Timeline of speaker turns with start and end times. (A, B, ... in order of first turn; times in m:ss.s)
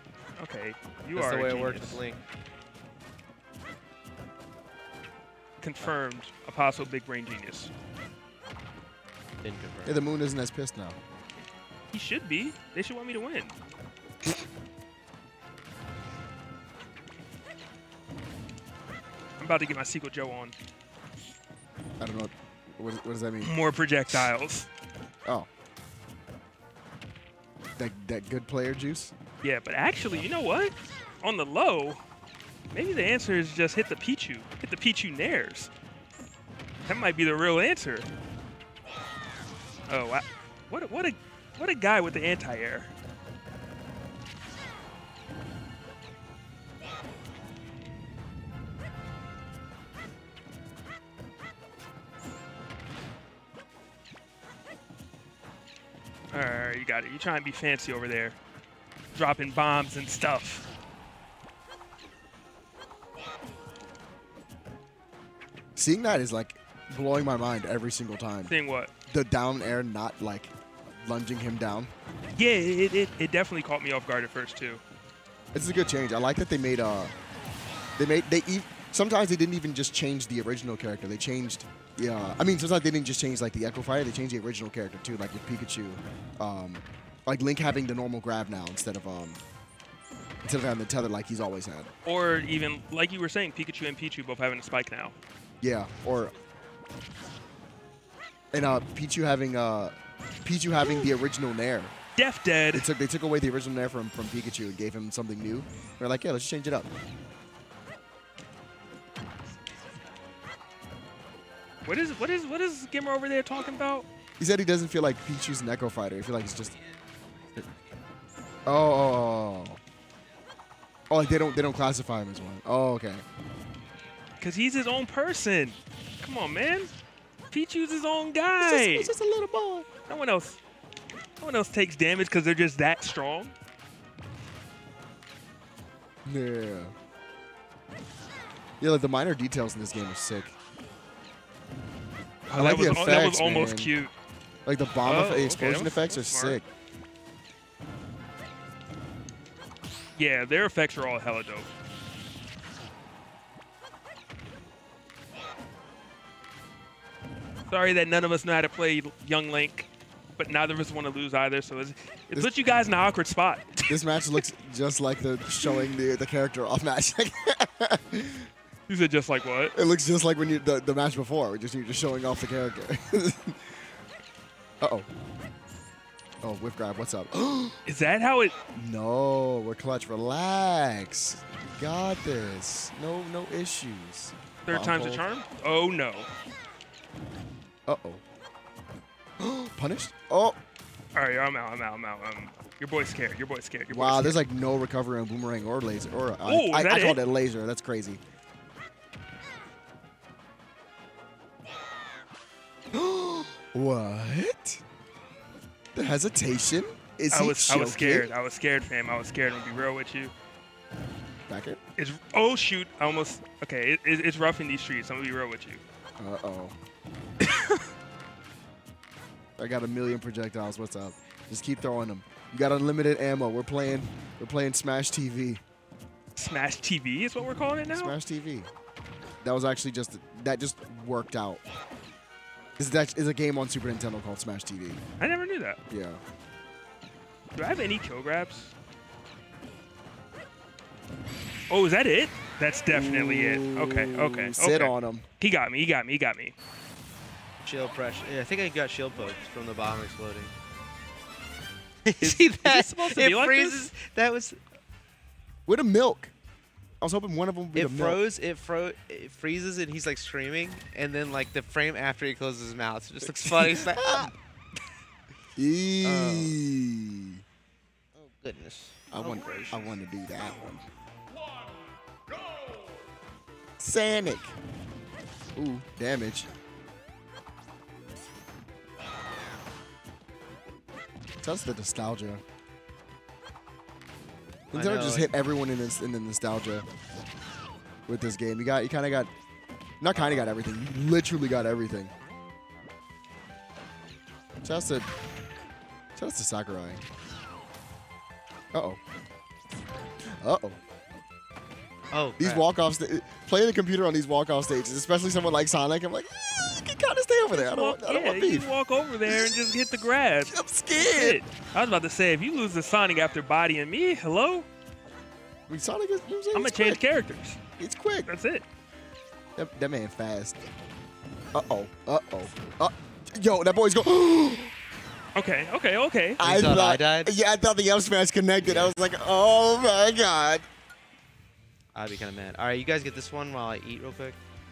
0:00.4-0:02.0 A
0:01.1-0:02.2 B
0:05.6-0:07.7 A
0:09.4-0:10.1 B
0:09.8-0:11.0 C
0:11.9-0:13.6 A
0:19.4-0:20.6 A
0:22.0-0:23.5 C
0:23.4-0:24.7 A
0:27.8-0:29.1 C
0:29.4-0:32.0 A
0:32.7-0:35.7 A
0:36.8-0:38.1 A
0:39.9-0:42.9 A
0:56.3-0:58.4 A
0:59.2-1:00.7 A
1:05.8-1:08.5 C
1:08.5-1:08.9 A
1:09.1-1:11.9 C
1:12.4-1:14.8 A
1:15.5-1:17.1 C
1:18.0-1:29.4 C
1:30.4-1:31.9 C
1:32.0-1:35.2 A
1:35.6-1:36.4 C
1:38.5-1:42.0 C
1:40.8-1:41.1 A
1:42.2-1:42.9 A
1:42.7-1:46.9 C
1:51.8-1:54.1 A
1:54.4-1:56.8 C
1:58.7-1:59.8 C
2:01.1-2:03.2 C
2:04.4-2:06.9 A
2:07.5-2:09.1 A
2:08.6-2:09.9 C
2:10.1-2:10.6 A
2:11.4-2:13.5 A
2:16.3-2:16.9 C
2:18.8-2:20.6 C
2:22.5-2:24.1 A
2:22.5-2:23.9 C
2:24.6-2:26.7 C
2:25.0-2:26.6 A
2:30.2-2:31.7 A
2:37.7-2:44.0 A
2:43.9-2:48.5 C
2:48.9-2:49.8 A
2:49.8-2:53.8 C
2:54.8-2:55.1 C
2:56.4-2:57.8 C
2:57.8-2:58.5 A
2:58.7-3:05.3 C
3:04.7-3:06.3 A
3:07.9-3:08.2 C
3:09.4-3:10.6 C
3:11.1-3:14.4 A
3:13.9-3:18.2 C
3:16.4-3:17.2 A
3:22.9-3:24.8 C
3:26.0-3:28.3 C
3:27.3-3:30.3 A
3:31.5-3:31.8 C
3:32.0-3:35.8 A
3:36.2-3:36.8 C
3:39.6-3:45.6 C
3:46.4-3:48.2 A
3:47.9-3:48.7 C
3:49.4-3:51.6 C
3:52.8-3:55.0 C
3:55.2-3:55.8 A
3:55.9-3:56.2 C
3:57.6-3:58.7 A
4:01.7-4:06.6 A
4:02.9-4:05.3 C
4:07.6-4:10.5 B
4:12.0-4:14.6 B
4:12.2-4:13.9 A
4:15.7-4:16.3 C
4:17.0-4:18.2 C
4:17.8-4:24.4 B
4:23.2-4:24.3 C
4:25.6-4:27.4 C
4:26.0-4:26.5 B
4:28.2-4:29.9 B
4:29.1-4:30.9 C
4:33.8-4:34.6 C
4:35.6-4:36.5 C
4:41.4-4:42.4 C
4:44.7-4:45.3 B
4:44.7-4:46.9 C
4:48.1-4:49.3 C
4:50.0-4:52.1 C
4:54.6-4:55.1 C
4:56.2-4:57.0 C
4:58.7-4:59.0 C
5:00.4-5:00.8 C
5:02.1-5:02.7 B
5:02.4-5:08.7 C
5:07.5-5:14.7 A
5:09.3-5:09.6 C
5:10.5-5:11.4 C
5:15.7-5:17.0 C
5:16.5-5:17.6 A
5:17.8-5:18.3 C
5:18.3-5:18.7 A
5:19.6-5:20.6 C
5:21.5-5:24.7 C
5:25.4-5:26.4 A
5:26.4-5:27.3 B
5:26.4-5:30.7 C
5:28.6-5:28.9 B
5:31.9-5:34.4 B